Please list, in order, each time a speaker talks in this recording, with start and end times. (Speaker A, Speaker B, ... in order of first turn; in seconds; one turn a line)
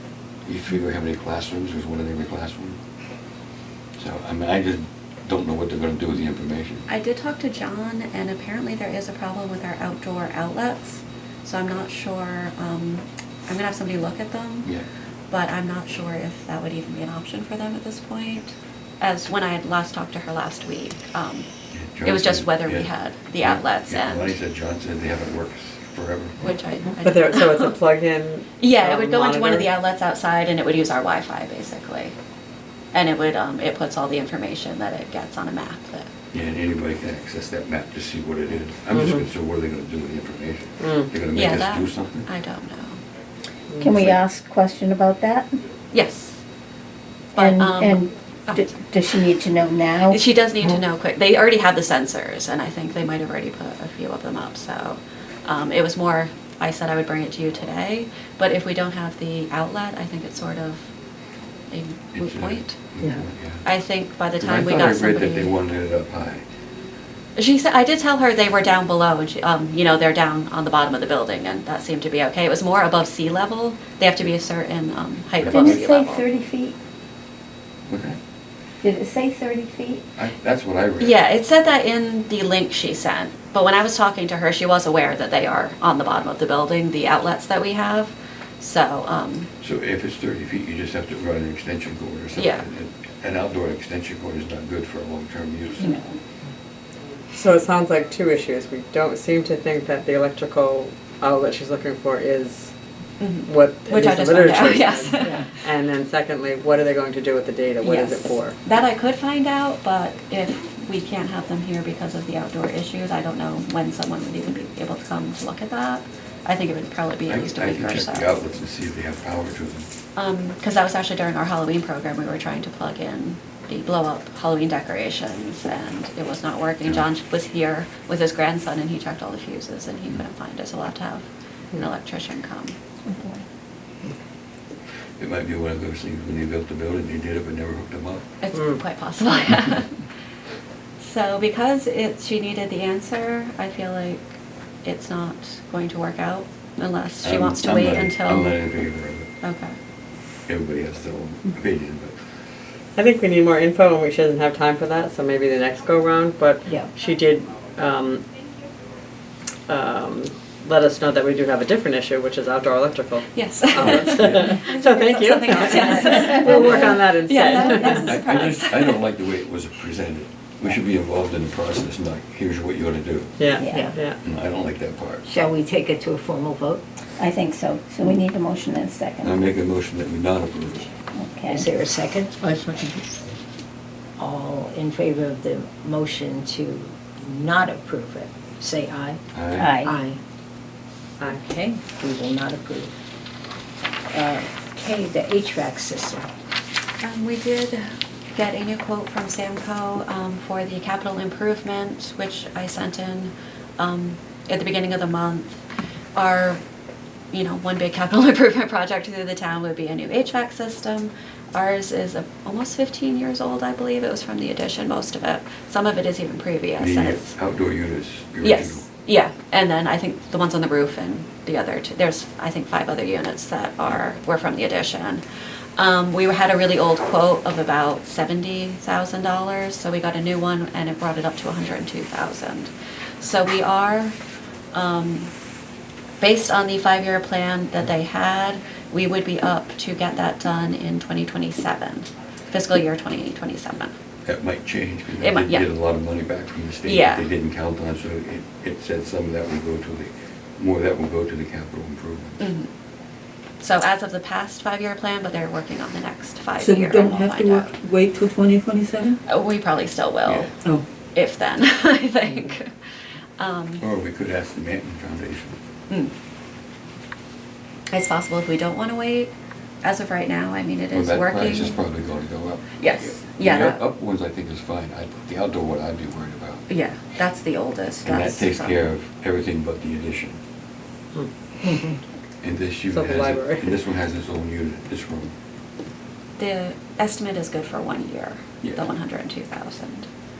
Speaker A: 0.5-2.8
Speaker A: 4.0-6.9
Speaker B: 6.9-14.7
Speaker B: 15.3-21.5
Speaker A: 21.7-26.4
Speaker B: 22.0-24.4
Speaker B: 26.4-27.6
Speaker C: 27.0-29.7
Speaker B: 28.6-32.1
Speaker B: 32.9-36.1
Speaker A: 36.3-42.3
Speaker C: 38.9-39.2
Speaker C: 40.8-41.1
Speaker B: 41.3-43.0
Speaker C: 43.7-45.3
Speaker D: 44.1-45.5
Speaker B: 45.9-46.4
Speaker B: 47.3-49.3
Speaker C: 47.5-48.0
Speaker C: 48.5-50.1
Speaker D: 48.9-50.0
Speaker B: 50.0-60.9
Speaker B: 61.7-62.8
Speaker A: 62.1-63.6
Speaker B: 63.6-65.5
Speaker A: 64.4-66.4
Speaker B: 67.3-76.3
Speaker A: 75.4-75.9
Speaker C: 75.5-76.7
Speaker D: 76.5-76.7
Speaker A: 77.9-78.2
Speaker C: 78.8-80.0
Speaker D: 78.8-80.0
Speaker A: 80.2-81.2
Speaker B: 81.0-89.5
Speaker A: 89.6-96.0
Speaker B: 92.3-92.7
Speaker C: 97.3-102.7
Speaker B: 103.2-105.5
Speaker C: 103.5-108.5
Speaker E: 105.2-105.5
Speaker B: 107.8-118.3
Speaker A: 117.3-119.9
Speaker B: 120.2-132.7
Speaker A: 135.2-138.3
Speaker B: 138.4-140.0
Speaker C: 138.5-138.8
Speaker B: 141.0-144.3
Speaker B: 144.8-148.6
Speaker A: 147.2-149.3
Speaker B: 149.4-149.7
Speaker A: 150.5-152.2
Speaker C: 152.9-158.2
Speaker C: 159.7-168.2
Speaker B: 163.3-169.0
Speaker A: 163.8-164.4
Speaker E: 166.3-166.8
Speaker A: 167.8-173.4
Speaker C: 173.4-174.2
Speaker E: 173.7-174.0
Speaker A: 174.2-175.3
Speaker E: 175.2-176.8
Speaker D: 177.2-179.3
Speaker A: 179.2-180.9
Speaker D: 181.1-181.6
Speaker E: 181.5-182.4
Speaker F: 182.4-183.0
Speaker E: 184.2-190.2
Speaker A: 189.3-189.8
Speaker E: 191.3-192.9
Speaker E: 194.1-196.3
Speaker B: 197.0-205.6
Speaker B: 206.1-206.6
Speaker B: 207.3-217.3
Speaker A: 216.8-218.8
Speaker B: 218.4-225.2
Speaker B: 225.8-234.2
Speaker B: 234.7-235.3
Speaker B: 236.2-243.9
Speaker A: 244.2-252.4
Speaker B: 245.2-245.7
Speaker B: 246.8-247.3
Speaker B: 252.4-252.7
Speaker B: 253.6-257.7
Speaker F: 256.6-259.2
Speaker B: 259.3-260.5
Speaker A: 260.2-260.5
Speaker B: 261.1-262.7
Speaker B: 263.4-263.8
Speaker A: 263.8-265.6
Speaker B: 267.9-269.3
Speaker B: 269.8-271.8
Speaker A: 270.9-276.6
Speaker B: 272.8-273.8
Speaker B: 276.7-278.8
Speaker A: 278.0-280.4
Speaker E: 281.6-281.9
Speaker A: 282.4-285.3
Speaker C: 282.9-283.7
Speaker B: 286.4-290.1